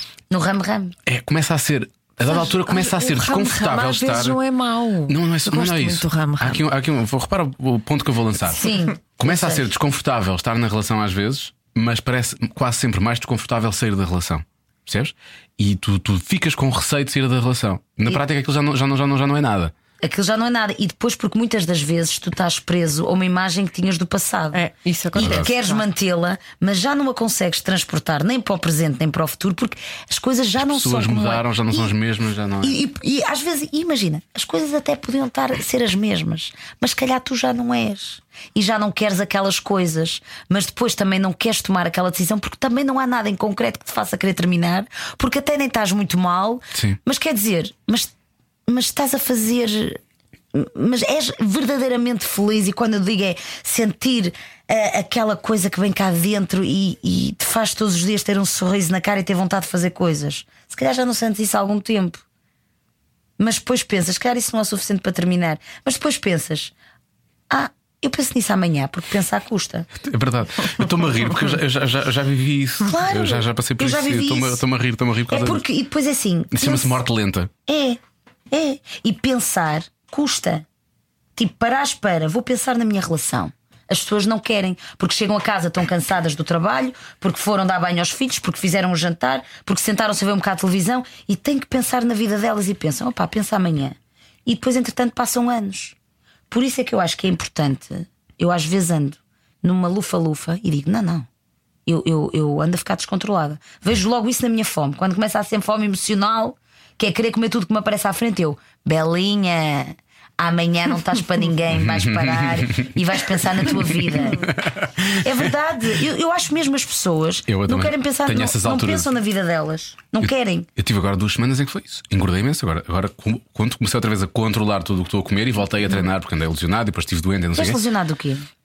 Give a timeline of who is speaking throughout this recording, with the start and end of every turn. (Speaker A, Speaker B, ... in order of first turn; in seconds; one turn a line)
Speaker A: 0.3-0.9
Speaker B: 1.1-4.4
Speaker A: 2.2-2.8
Speaker C: 2.6-6.6
Speaker B: 5.1-19.7
Speaker A: 8.5-9.7
Speaker A: 20.0-24.6
Speaker C: 24.5-25.8
Speaker B: 25.1-25.5
Speaker A: 25.1-31.9
Speaker B: 30.6-32.8
Speaker A: 32.6-48.1
Speaker A: 48.7-50.0
Speaker A: 50.5-62.2
Speaker A: 63.4-66.7
Speaker A: 67.5-69.9
Speaker B: 70.0-75.6
Speaker A: 72.8-74.6
Speaker A: 75.3-77.0
Speaker B: 76.5-77.5
Speaker A: 77.7-78.0
Speaker A: 78.5-80.7
Speaker A: 81.3-96.0
Speaker A: 96.5-101.3
Speaker A: 101.8-120.7
Speaker B: 111.7-115.5
Speaker B: 117.5-119.1
Speaker B: 120.2-127.8
Speaker A: 127.5-128.5